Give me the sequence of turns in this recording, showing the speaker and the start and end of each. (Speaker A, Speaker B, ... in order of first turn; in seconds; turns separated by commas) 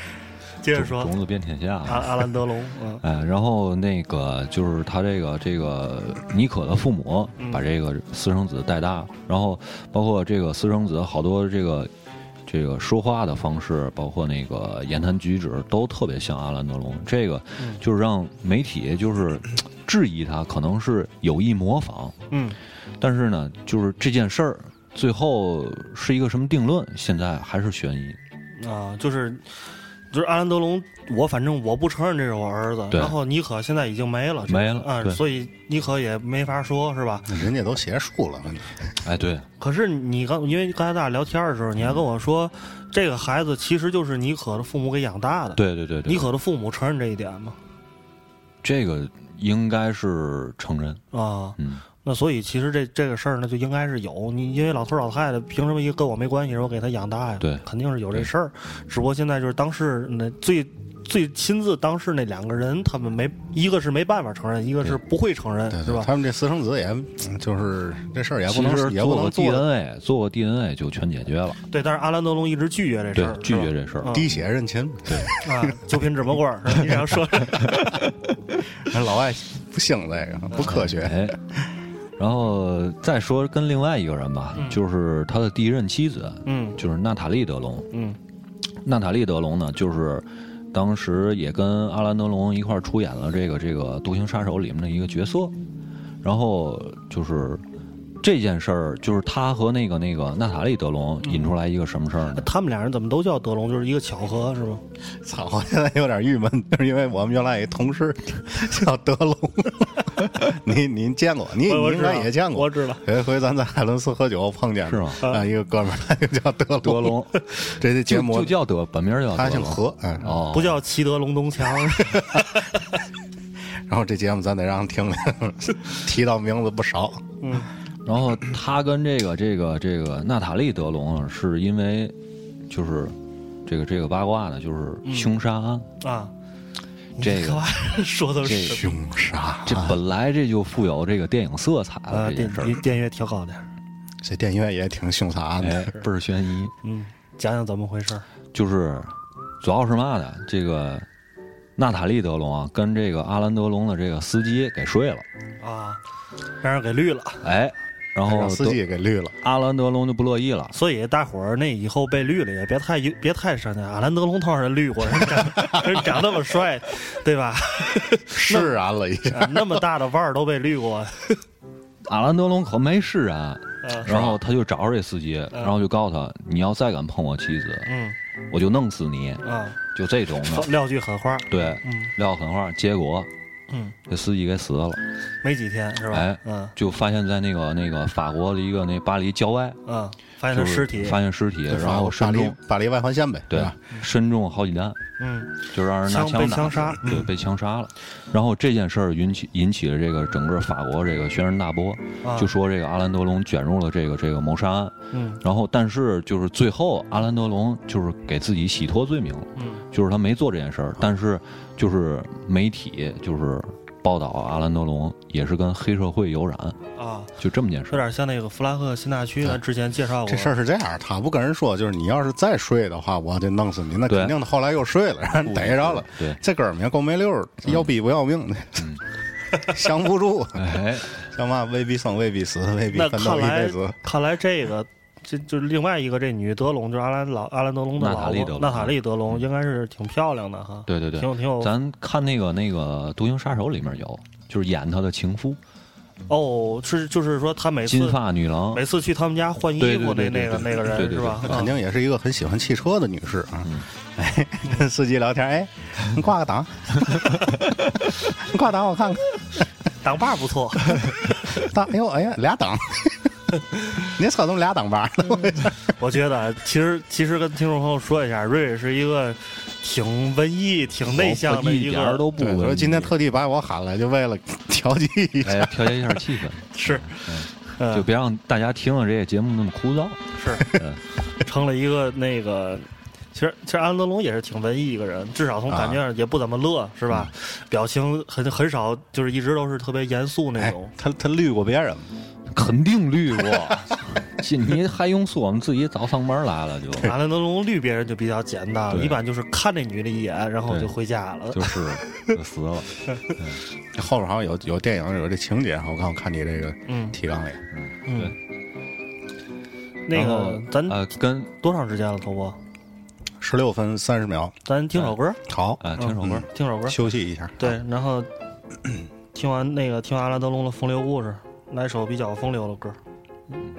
Speaker A: 0.6-1.1, Speaker B: 0.7-2.3, Speaker A: 1.9-3.0, Speaker B: 3.0-11.9, Speaker B: 12.5-22.1, Speaker A: 22.3-22.6, Speaker B: 23.0-28.2, Speaker A: 28.6-29.5, Speaker A: 30.1-37.3, Speaker B: 34.5-35.2, Speaker C: 37.3-39.0, Speaker B: 39.0-39.5, Speaker A: 39.6-47.6, Speaker B: 45.6-46.3, Speaker B: 48.6-51.0, Speaker A: 51.1-66.1, Speaker B: 51.6-51.8, Speaker B: 57.4-58.3, Speaker C: 65.7-69.7, Speaker B: 68.5-71.6, Speaker A: 71.7-74.3, Speaker B: 73.2-74.3, Speaker C: 74.1-75.8, Speaker A: 75.4-77.8, Speaker B: 77.6-77.9, Speaker C: 78.8-81.7, Speaker B: 80.6-81.4, Speaker B: 82.2-87.9, Speaker A: 86.5-86.8, Speaker A: 87.9-88.2, Speaker B: 88.8-95.5, Speaker B: 96.2-97.6, Speaker B: 98.2-102.5, Speaker A: 101.2-101.5, Speaker A: 102.3-104.8, Speaker C: 105.2-118.6, Speaker A: 111.7-113.0, Speaker B: 114.8-115.2, Speaker B: 116.8-120.8, Speaker C: 119.3-120.3, Speaker A: 120.4-122.7, Speaker C: 123.9-127.2, Speaker A: 127.4-127.7, Speaker B: 128.1-132.2, Speaker B: 132.7-133.1, Speaker B: 133.7-135.9, Speaker A: 135.1-135.3, Speaker A: 136.0-136.3, Speaker A: 137.2-138.9, Speaker B: 137.2-137.7, Speaker B: 138.4-138.8, Speaker C: 138.7-140.0, Speaker B: 139.7-142.8, Speaker A: 142.1-143.6, Speaker C: 144.2-146.0, Speaker B: 145.6-146.7, Speaker A: 146.8-148.3, Speaker B: 148.5-151.1, Speaker B: 151.8-155.2, Speaker A: 155.6-156.0, Speaker A: 156.6-157.4, Speaker B: 157.4-158.8, Speaker C: 158.3-159.4, Speaker B: 159.4-160.8, Speaker A: 160.7-168.7, Speaker C: 168.3-169.8, Speaker A: 169.3-171.4, Speaker B: 172.1-177.9, Speaker A: 173.8-174.3, Speaker A: 177.9-178.2, Speaker B: 178.5-179.4, Speaker A: 179.4-179.8, Speaker B: 179.9-180.7, Speaker A: 180.5-182.1, Speaker B: 181.5-183.3, Speaker A: 183.7-183.9, Speaker B: 184.1-185.0, Speaker A: 185.4-186.7, Speaker B: 186.1-189.8, Speaker A: 189.9-191.2, Speaker B: 190.5-192.6, Speaker C: 191.7-193.8, Speaker B: 193.5-195.0, Speaker A: 195.2-197.3, Speaker B: 195.7-216.8, Speaker A: 202.2-202.5, Speaker A: 205.1-205.4, Speaker A: 209.6-209.8, Speaker A: 217.0-217.3, Speaker B: 217.4-218.1, Speaker A: 217.9-220.6, Speaker C: 220.2-228.9, Speaker B: 224.1-224.4, Speaker B: 225.4-226.4, Speaker C: 229.5-234.0, Speaker B: 230.6-231.2, Speaker A: 232.9-241.7, Speaker B: 238.0-239.4, Speaker B: 240.9-245.6, Speaker A: 246.3-248.2, Speaker B: 247.9-248.8, Speaker A: 248.7-251.7, Speaker B: 249.8-251.6, Speaker C: 251.4-259.4, Speaker A: 260.0-261.3, Speaker C: 261.5-263.3, Speaker C: 263.9-265.8, Speaker A: 265.8-272.3, Speaker B: 271.1-273.1, Speaker C: 272.4-276.0, Speaker B: 275.4-281.0, Speaker A: 276.8-277.2, Speaker A: 277.8-278.1, Speaker A: 280.4-280.7, Speaker A: 281.4-290.9, Speaker C: 285.7-286.0, Speaker C: 290.6-292.1, Speaker B: 292.5-297.1, Speaker A: 297.0-302.3, Speaker B: 298.9-299.2, Speaker B: 301.5-303.6, Speaker C: 303.9-307.6, Speaker A: 306.9-307.1, Speaker B: 307.7-308.4, Speaker A: 308.1-308.3, Speaker A: 310.1-311.0, Speaker B: 310.1-311.5, Speaker A: 311.6-312.6, Speaker C: 313.4-314.6, Speaker A: 314.7-315.4, Speaker C: 315.5-317.8, Speaker B: 315.8-316.4, Speaker A: 316.0-317.0, Speaker A: 317.6-318.3, Speaker A: 319.3-323.0